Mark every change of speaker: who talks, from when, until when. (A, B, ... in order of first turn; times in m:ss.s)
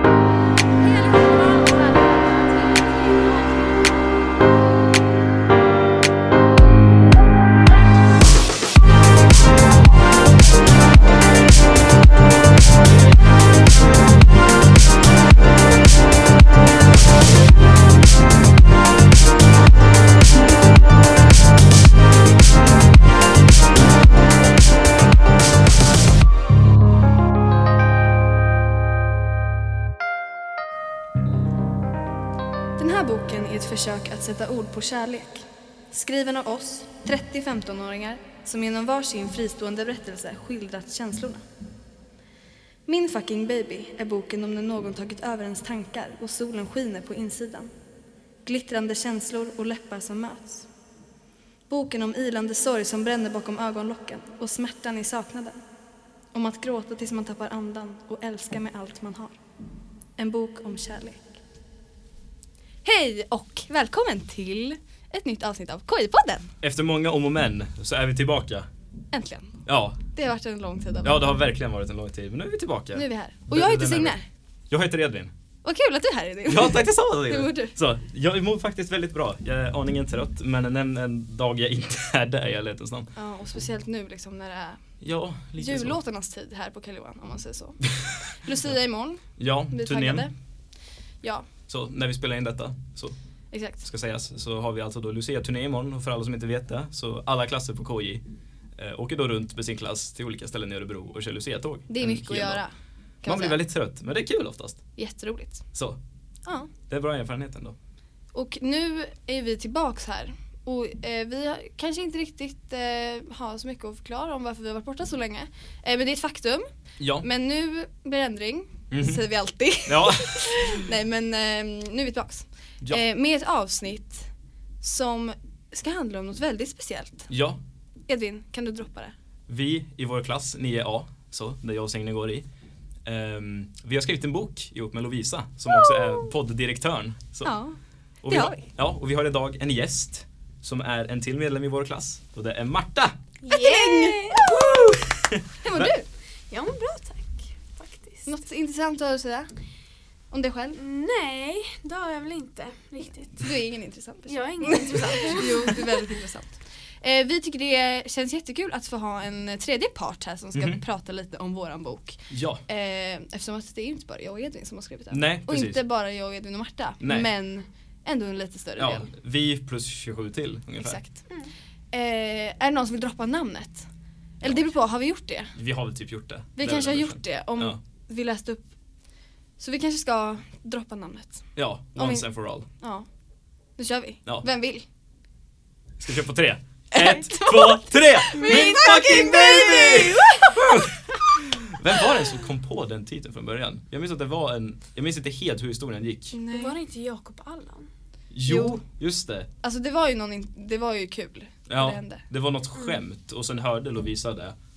0:00.7-0:03.9 A
0:32.8-0:41.4 A
0:42.9-0:47.7 A
0:48.4-0:50.7 A
0:51.7-0:55.6 A
0:56.3-0:59.4 A
1:00.2-1:01.4 A
1:02.8-1:06.5 A
1:06.6-1:08.7 B
1:09.1-1:09.6 A
1:09.7-1:10.0 B
1:10.1-1:11.3 A
1:11.0-1:14.2 B
1:12.9-1:14.3 A
1:14.7-1:15.3 B
1:15.6-1:17.8 A
1:16.5-1:23.1 B
1:23.2-1:24.8 A
1:25.0-1:26.0 B
1:25.6-1:30.3 A
1:29.4-1:30.3 B
1:31.2-1:31.5 A
1:31.7-1:33.2 B
1:33.5-1:33.8 A
1:33.8-1:38.2 B
1:38.8-1:42.6 B
1:41.9-1:43.6 A
1:43.2-1:44.8 B
1:45.0-1:45.6 A
1:46.4-1:46.7 A
1:46.9-1:47.8 B
1:48.3-2:07.3 A
1:57.0-1:57.2 B
1:58.9-1:59.2 B
1:59.9-2:00.9 B
2:07.3-2:07.6 B
2:08.1-2:09.2 A
2:09.5-2:12.5 B
2:13.0-2:17.6 B
2:17.4-2:18.7 A
2:18.2-2:23.2 B
2:23.4-2:24.7 C
2:23.5-2:24.7 A
2:24.4-2:25.9 B
2:25.6-2:26.1 A
2:26.5-2:28.4 C
2:28.2-2:29.5 A
2:30.3-2:30.8 A
2:30.8-2:33.5 C
2:33.4-2:49.1 A
2:34.3-2:36.0 C
2:40.5-2:40.8 B
2:42.3-2:42.6 B
2:45.1-2:45.8 B
2:47.0-2:47.3 B
2:48.8-2:51.0 B
2:50.8-2:51.3 A
2:51.9-2:53.9 A
2:54.4-2:55.6 A
2:54.4-2:54.7 B
2:55.6-2:57.8 B
2:56.6-2:58.7 A
2:59.6-3:02.3 A
3:01.6-3:02.7 B
3:02.8-3:03.1 A
3:03.8-3:04.8 A
3:06.0-3:16.4 B
3:06.9-3:10.6 A
3:08.4-3:09.4 C
3:16.3-3:16.7 A
3:16.5-3:17.9 C
3:18.3-3:19.5 B
3:18.4-3:18.8 A
3:19.6-3:22.2 A
3:21.7-3:24.6 B